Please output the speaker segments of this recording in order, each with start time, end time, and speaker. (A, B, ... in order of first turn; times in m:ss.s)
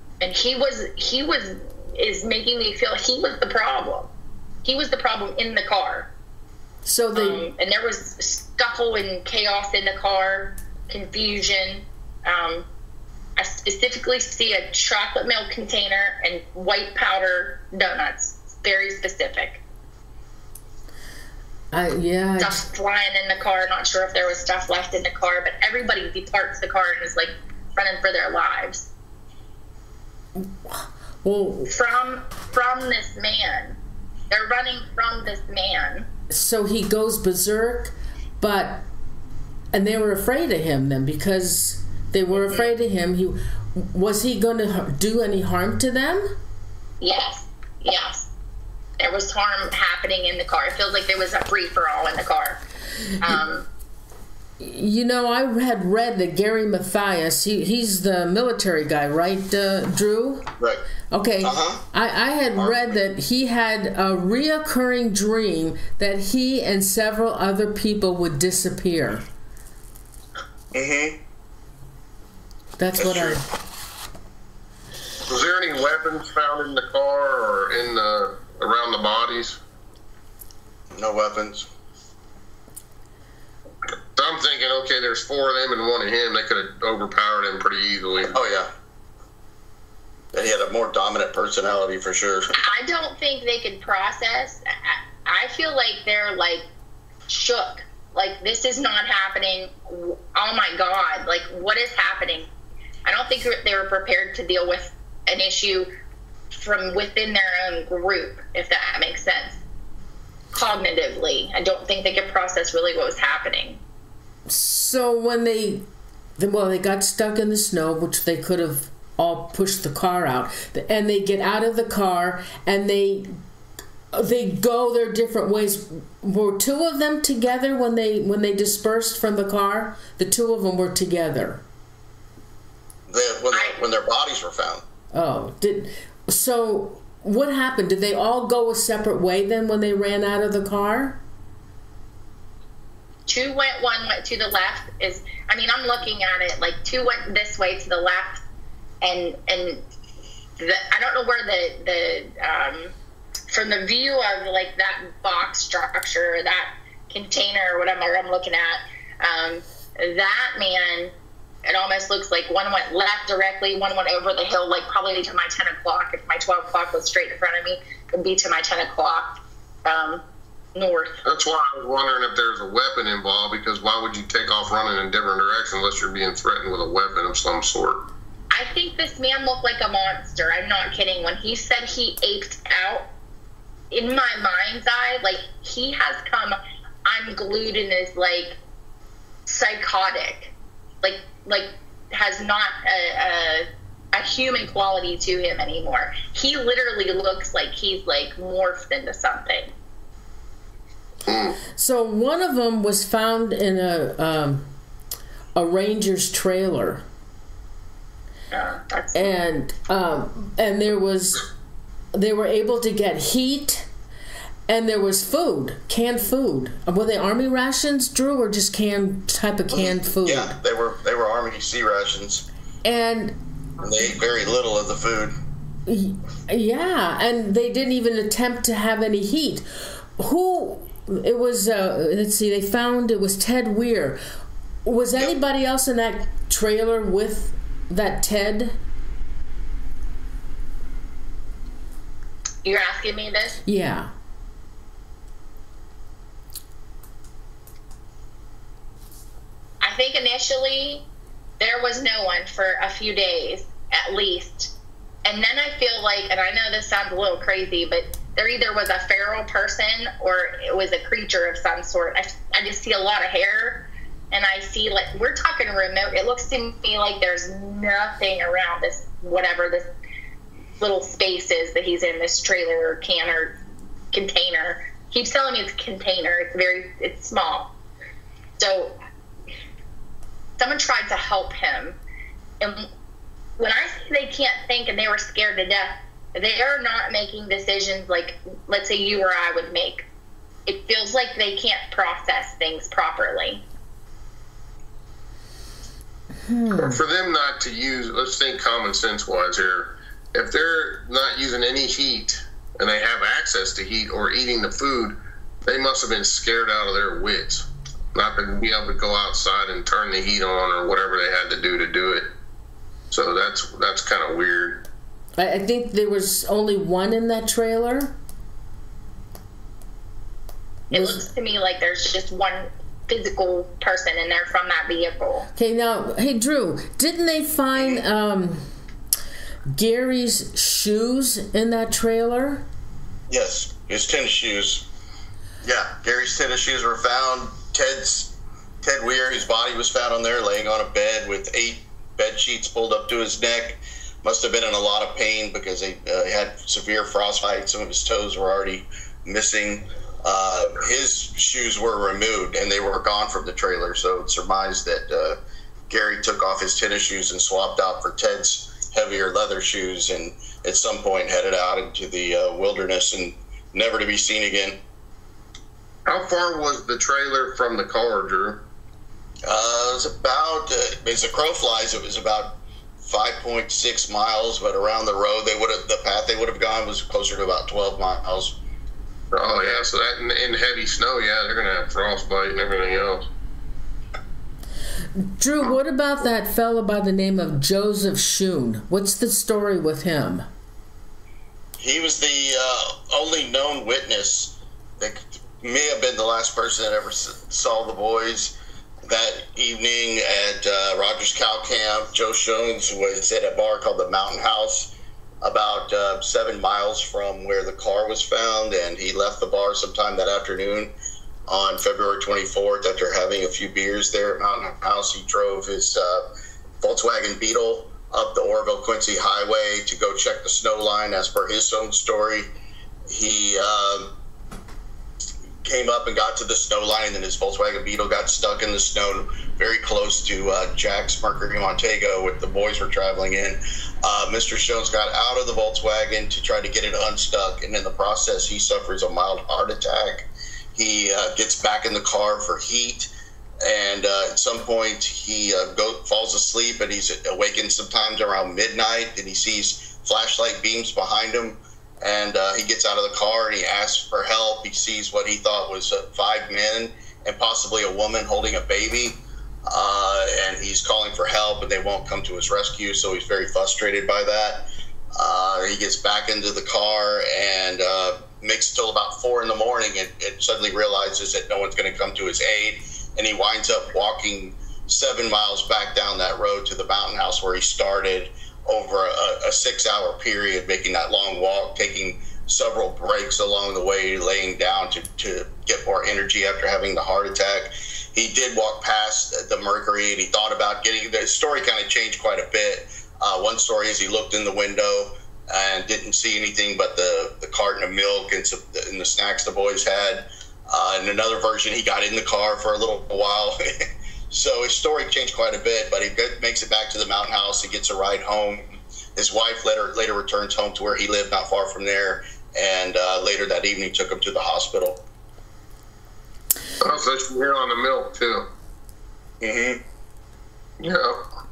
0:00.2-0:04.1 A
0:04.6-0:06.1 A
0:06.8-0:07.4 B
0:07.1-0:12.6 A
0:13.4-0:19.6 A
0:21.7-0:22.6 B
0:22.4-0:28.9 A
0:30.4-0:31.7 B
0:31.7-0:33.8 A
0:34.3-0:36.1 A
0:36.3-0:38.9 B
0:39.7-0:46.4 B
0:47.0-0:48.3 A
0:49.0-0:52.6 A
0:53.2-0:53.6 A
0:54.6-1:00.5 B
1:01.1-1:09.2 B
1:01.4-1:01.8 C
1:10.7-1:11.2 C
1:12.8-1:13.4 B
1:13.0-1:13.4 C
1:15.3-1:19.6 D
1:20.9-1:21.7 C
1:24.2-1:28.4 D
1:28.3-1:28.7 C
1:30.3-1:32.5 C
1:32.6-1:36.7 A
1:37.3-1:42.5 A
1:43.0-1:45.9 A
1:46.5-1:49.6 A
1:50.5-1:53.8 A
1:54.5-1:55.8 B
1:56.4-2:03.4 B
2:04.1-2:11.6 B
2:13.1-2:14.8 C
2:15.1-2:21.2 B
2:23.3-2:28.4 A
2:29.0-2:29.8 A
2:30.6-2:32.9 A
2:33.5-2:41.1 A
2:41.6-2:50.2 A
2:50.7-2:51.2 A
2:51.2-2:58.1 D
2:58.5-3:03.1 A
3:03.9-3:08.6 A
3:09.4-3:19.7 A
3:21.2-3:21.6 D
3:21.8-3:24.7 B
3:25.6-3:27.0 B
3:28.5-3:29.3 A
3:29.1-3:31.4 B
3:32.1-3:33.9 B
3:34.7-3:40.5 B
3:39.7-3:42.4 C
3:42.8-3:43.4 B
3:43.8-3:45.4 C
3:45.9-3:54.2 B
3:54.8-3:58.8 B
4:02.6-4:03.6 A
4:03.6-4:04.1 B
4:09.8-4:11.0 A
4:11.6-4:14.7 A
4:15.2-4:29.9 A
4:30.8-4:33.6 A
4:34.1-4:37.7 A
4:38.6-4:38.9 A
4:40.6-4:42.0 A
4:42.6-4:42.9 A
4:43.6-4:50.0 A
4:50.6-4:53.6 A
4:56.4-4:57.0 B
4:56.8-5:12.3 D
5:13.1-5:14.8 D
5:15.4-5:18.2 B
5:20.9-5:25.5 A
5:20.9-5:21.2 B
5:25.6-5:28.7 B
5:27.7-5:28.0 C
5:29.7-5:32.6 B
5:33.3-5:34.8 C
5:35.6-5:55.4 C
5:55.9-6:04.8 C
6:06.0-6:08.6 D
6:09.4-6:18.6 C
6:19.3-6:23.2 D
6:25.2-6:30.5 B
6:31.8-6:38.5 C
6:39.0-6:44.9 C
6:45.4-6:50.9 C
6:51.5-6:56.2 C
6:56.8-7:02.5 C
7:03.1-7:04.1 C
7:05.6-7:23.1 C
7:23.6-8:35.0 C
8:36.8-8:38.5 D
8:39.4-8:39.8 C
8:40.8-8:41.2 D